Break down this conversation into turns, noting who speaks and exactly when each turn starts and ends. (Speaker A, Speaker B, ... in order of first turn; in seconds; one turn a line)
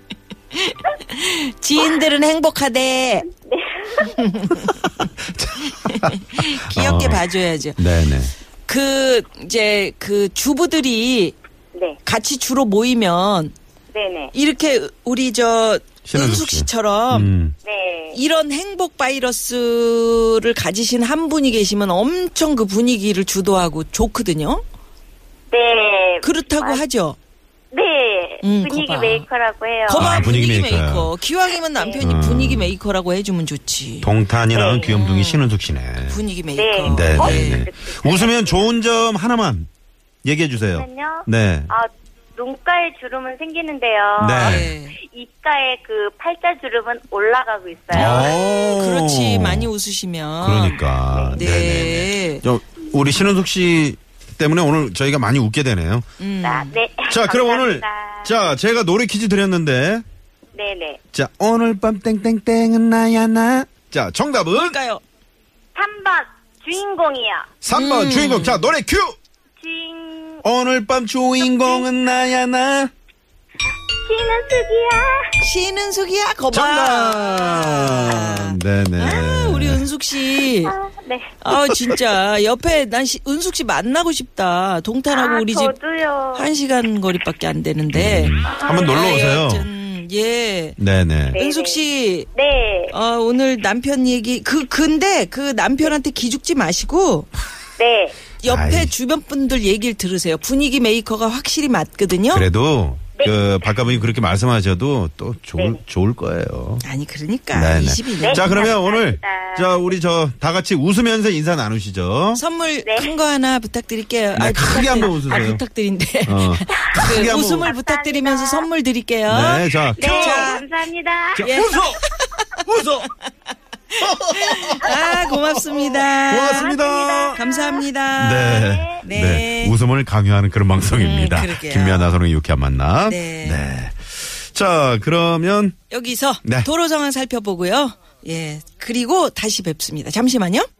Speaker A: 0.5-3.3
Speaker B: 3.5-4.2
Speaker A: 4.0-5.1
Speaker C: 4.6-7.2
Speaker A: 5.7-7.9
Speaker C: 7.8-8.3
Speaker A: 8.7-11.3
Speaker A: 12.0-13.5
Speaker B: 13.9-14.3
Speaker A: 14.3-17.3
Speaker C: 16.0-17.6
Speaker B: 17.6-18.2
Speaker A: 18.1-24.6
Speaker B: 25.5-26.8
Speaker A: 26.2-27.2
Speaker B: 27.7-30.4
Speaker A: 28.4-29.2
Speaker A: 29.9-34.1
Speaker C: 29.9-31.1
Speaker B: 31.7-32.1
Speaker C: 32.0-32.7
Speaker C: 34.0-36.2
Speaker B: 34.5-34.9
Speaker A: 34.8-37.6
Speaker B: 36.5-38.7
Speaker C: 36.8-39.7
Speaker C: 40.2-41.7
Speaker B: 40.6-48.4
Speaker C: 44.2-44.7
Speaker A: 44.4-45.0
Speaker C: 47.9-49.7
Speaker A: 47.9-52.5
Speaker C: 50.4-56.1
Speaker B: 51.1-51.4
Speaker A: 56.2-56.8
Speaker B: 56.4-58.4
Speaker C: 57.1-60.0
Speaker B: 60.5-61.0
Speaker C: 61.1-64.8
Speaker A: 64.5-65.0
Speaker B: 65.8-67.5
Speaker C: 67.6-69.1
Speaker A: 67.7-68.7
Speaker B: 69.6-70.4
Speaker C: 70.4-72.9
Speaker B: 71.6-71.8
Speaker B: 74.0-75.3
Speaker A: 75.4-80.7
Speaker C: 76.5-79.8
Speaker B: 80.5-81.9
Speaker A: 81.4-85.7
Speaker B: 85.1-86.5
Speaker A: 86.3-90.8
Speaker C: 87.9-89.7
Speaker B: 88.4-89.0
Speaker C: 90.8-91.4
Speaker B: 91.3-91.8
Speaker A: 91.3-92.3
Speaker B: 92.3-92.9
Speaker A: 92.9-97.3
Speaker B: 97.8-98.2
Speaker C: 98.4-98.9
Speaker A: 98.4-102.5
Speaker C: 102.3-106.8
Speaker B: 103.2-103.7
Speaker A: 106.8-108.8
Speaker C: 107.5-112.4
Speaker B: 108.2-109.9
Speaker A: 112.3-120.6
Speaker B: 112.8-113.2
Speaker C: 114.3-115.6
Speaker C: 116.2-117.7
Speaker B: 116.8-118.7
Speaker C: 119.3-120.5
Speaker B: 120.0-121.5
Speaker C: 121.3-122.0
Speaker A: 121.4-123.0
Speaker C: 122.6-123.1
Speaker A: 123.9-126.7
Speaker C: 124.0-127.4
Speaker B: 126.5-127.8
Speaker A: 127.3-129.8
Speaker C: 128.1-135.8
Speaker B: 128.4-129.0
Speaker A: 130.9-132.2
Speaker A: 133.1-133.6
Speaker A: 135.9-140.7
Speaker C: 136.4-136.7